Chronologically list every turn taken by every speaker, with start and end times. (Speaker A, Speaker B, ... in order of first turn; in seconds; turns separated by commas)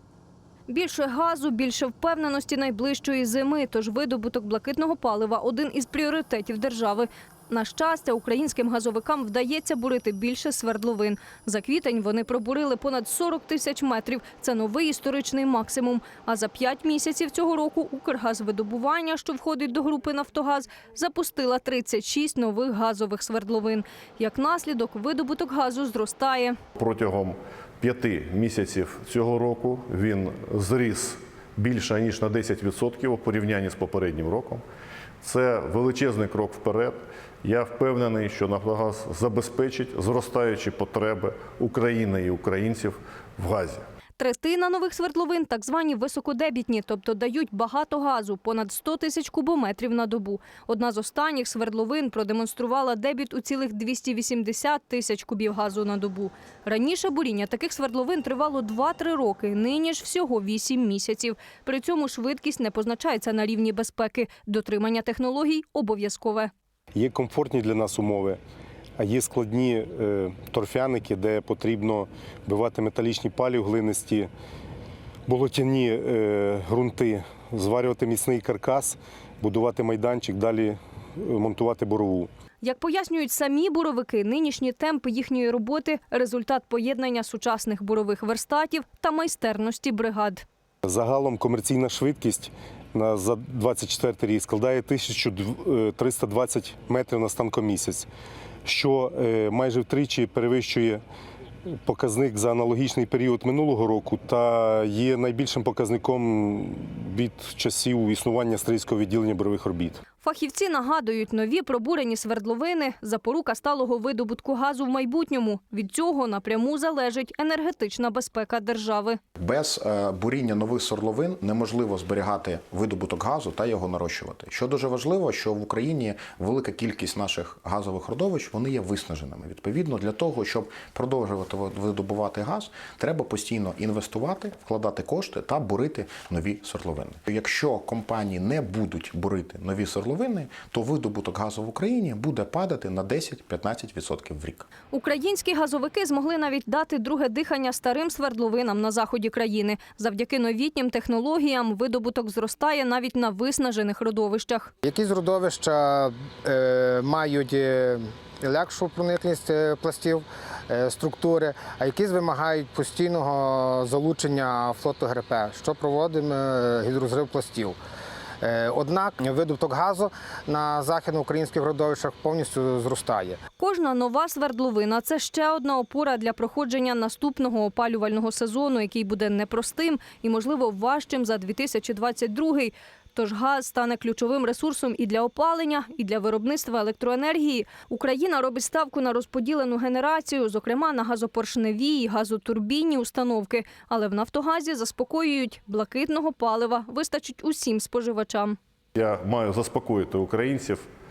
Speaker A: 0.7-26.6, Speaker B: 26.7-34.6, Speaker B: 35.2-43.9, Speaker A: 44.2-66.5, Speaker C: 66.9-68.4, Speaker C: 69.0-74.3, Speaker C: 75.3-82.3, Speaker A: 82.6-90.4, Speaker C: 90.8-98.1, Speaker C: 98.6-101.0, Speaker C: 101.7-110.0, Speaker A: 110.2-119.2, Speaker D: 119.4-144.7, Speaker A: 144.9-154.7, Speaker E: 154.8-167.8, Speaker E: 168.4-173.4, Speaker A: 173.6-198.6, Speaker B: 198.9-200.9